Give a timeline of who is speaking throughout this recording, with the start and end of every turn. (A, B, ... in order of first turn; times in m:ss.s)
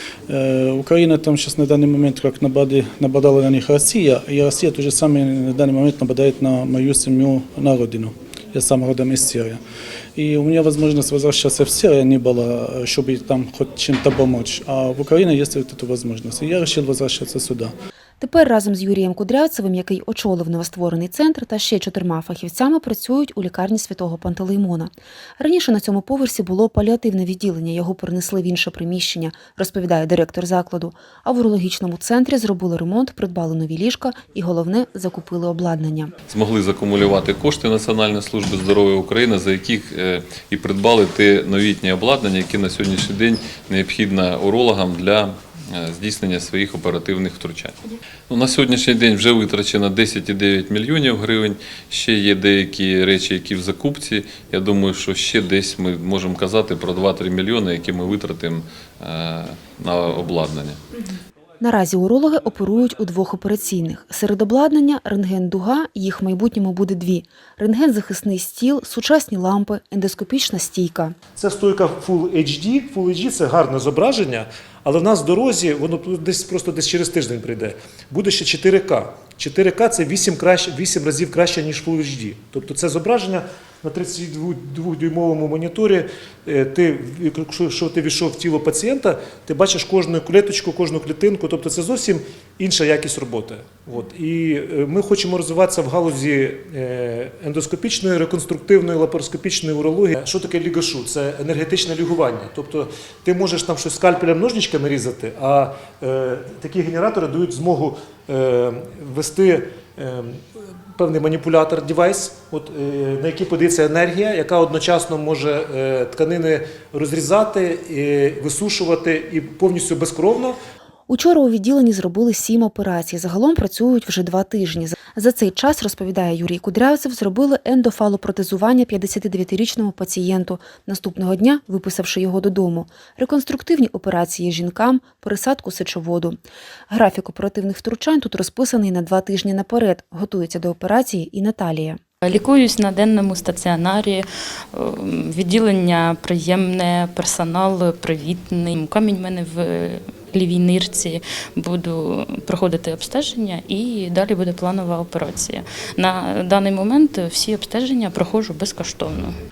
0:00.3-0:09.6 A
0:10.2-0:17.7 A
0:18.2-0:36.1 B
0:36.3-0:47.8 C
0:48.3-1:00.8 C
1:01.6-1:11.2 B
1:11.4-1:50.4 D
1:51.0-2:00.6 D
2:01.1-2:16.4 B
2:16.9-2:22.0 B
2:22.2-2:39.3 E